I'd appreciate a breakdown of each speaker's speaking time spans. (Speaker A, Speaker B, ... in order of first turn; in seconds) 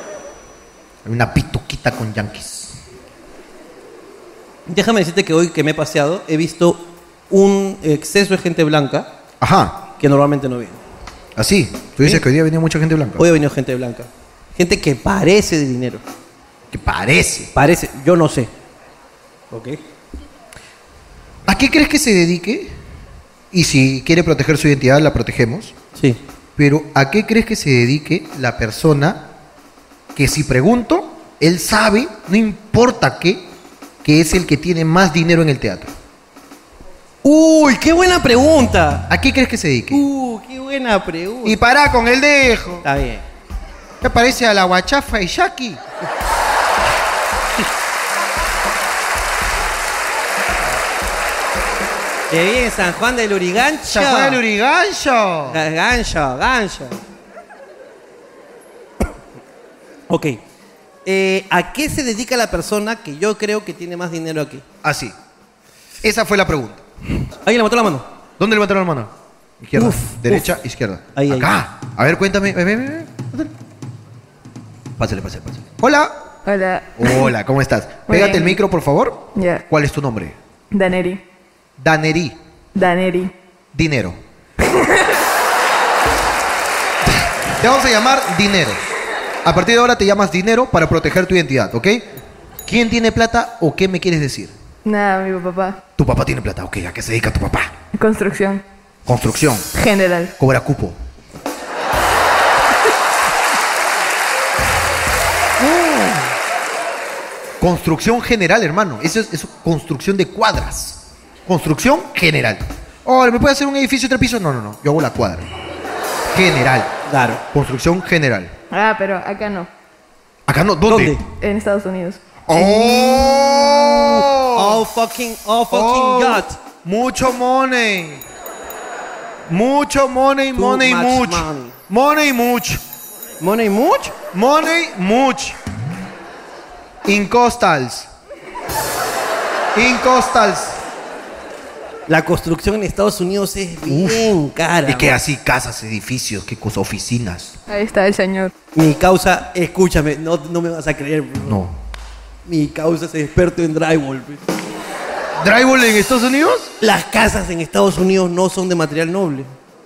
Speaker A: 1.1-2.7, 9.4-9.8, 11.4-13.2, 16.7-17.5, 21.5-22.7, 23.5-25.7, 26.6-29.3, 30.1-33.5, 34.0-35.9, 39.1-40.0, 41.4-42.9, 44.0-45.8, 53.9-55.6, 64.8-65.2, 66.0-66.8, 68.4-73.5, 75.0-76.2, 77.0-80.4, 81.8-82.4, 83.7-84.2, 87.6-88.8, 89.5-92.1, 92.7-94.5, 96.0-97.7, 99.1-99.7, 100.4-101.0, 107.6-115.5, 116.3-116.9, 117.5-118.5, 120.5-121.2, 122.5-124.8, 125.7-128.2, 129.5-132.8, 134.3-135.6, 137.1-138.1, 139.7-140.8, 143.9-144.3, 144.9-147.6, 151.5-151.8, 155.4-156.7
Speaker B: 4.7-9.1, 10.0-10.8, 13.2-16.0, 17.5-18.5, 19.5-19.8, 25.9-26.2, 37.2-39.1, 39.9-41.6, 42.8-43.2, 52.3-54.4, 55.5-57.0, 60.1-60.4, 61.1-64.6, 67.3-68.1, 69.8-70.5, 71.2-71.5, 105.7-106.2, 117.1-117.4, 120.9-121.2, 124.0-126.6, 130.6-131.8, 133.4-134.2, 142.1-145.2, 148.7-151.6, 152.4-154.5, 156.8-159.5
Speaker C: 76.5-77.3, 78.1-78.6, 79.3-79.6, 80.7-81.2, 82.7-83.3, 94.8-95.8, 98.0-98.6, 99.7-100.3, 118.7-119.7, 121.3-122.2, 147.7-148.5